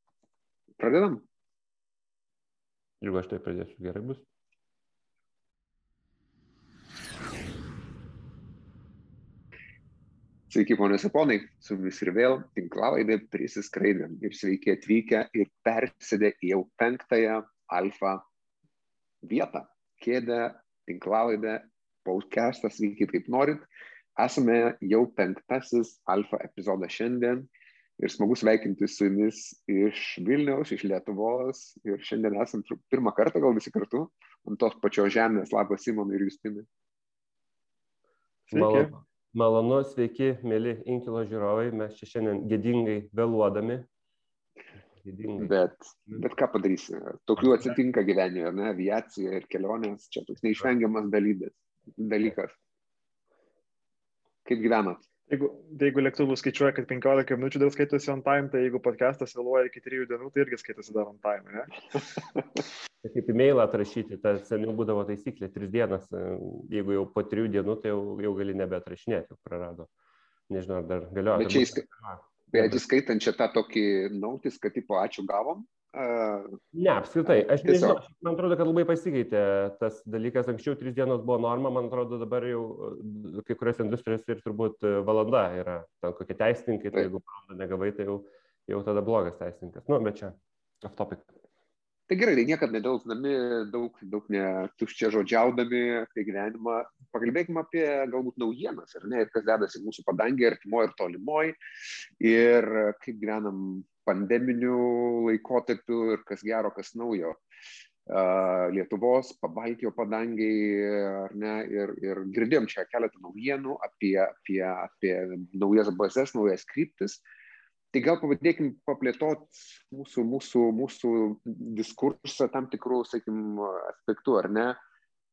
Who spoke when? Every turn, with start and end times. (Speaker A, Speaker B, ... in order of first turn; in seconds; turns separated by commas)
Speaker A: 0.8-1.2, Speaker B: 3.0-4.2, Speaker A: 10.5-18.2, Speaker A: 19.2-23.6, Speaker A: 24.2-27.5, Speaker A: 28.0-36.7, Speaker C: 38.5-38.9, Speaker B: 38.5-43.9, Speaker B: 45.0-45.6, Speaker A: 45.4-52.6, Speaker A: 54.5-55.0, Speaker C: 55.3-61.7, Speaker B: 63.0-69.9, Speaker B: 70.5-72.8, Speaker A: 71.3-71.8, Speaker A: 72.5-76.6, Speaker B: 76.7-91.3, Speaker A: 77.3-78.0, Speaker A: 92.1-101.6, Speaker A: 102.2-107.4, Speaker A: 108.1-117.2, Speaker A: 117.9-124.8